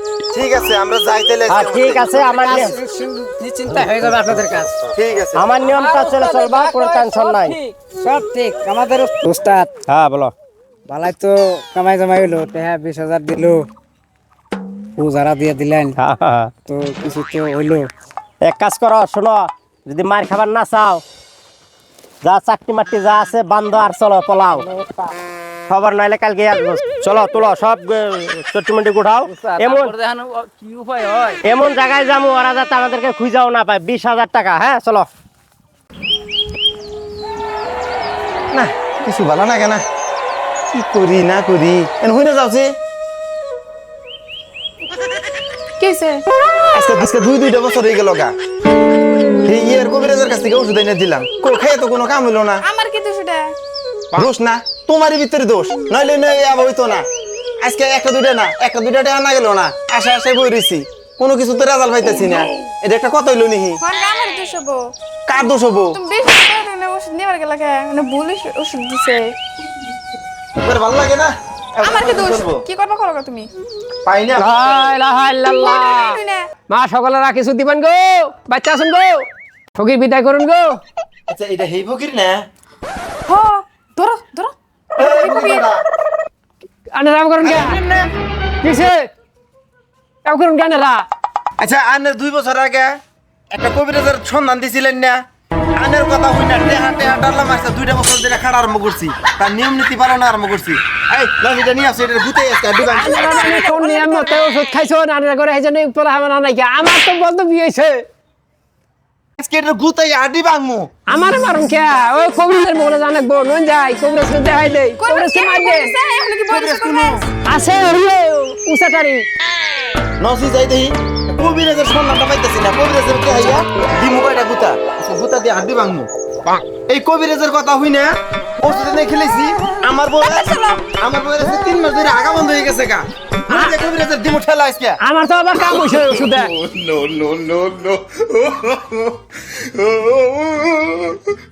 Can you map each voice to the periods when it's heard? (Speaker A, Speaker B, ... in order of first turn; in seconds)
Speaker A: 0.3-2.7, 4.9-5.5, 38.6-39.8, 40.7-42.7, 46.8-48.3, 49.4-52.6, 54.1-57.1, 57.6-63.8, 65.3-66.0, 70.6-72.6, 74.1-74.5, 81.3-82.4, 85.0-85.8, 87.4-88.1, 91.6-92.9, 93.5-95.2, 95.8-103.3, 109.4-110.9, 116.5-117.2, 120.2-126.1, 126.9-135.0, 135.7-139.2, 139.8-141.2
Speaker B: 1.5-2.8, 5.4-7.6, 9.9-10.3, 16.0-16.5, 18.4-21.0, 22.2-24.6, 25.7-29.9, 31.4-35.1
Speaker C: 2.1-4.8, 8.0-9.7, 10.9-13.7, 15.0-16.0, 16.7-17.9
Speaker D: 5.6-7.8, 29.3-31.4
Speaker E: 45.8-46.2, 52.6-53.5, 63.8-64.9, 66.0-69.3, 71.8-73.5, 75.6-76.5, 83.3-85.6, 103.2-104.1, 115.0-117.3
Speaker F: 74.4-76.2, 76.7-80.8, 86.9-87.8, 88.6-89.0, 90.3-91.0, 102.9-108.0, 111.1-115.9, 117.5-119.3, 133.5-133.8, 135.0-136.5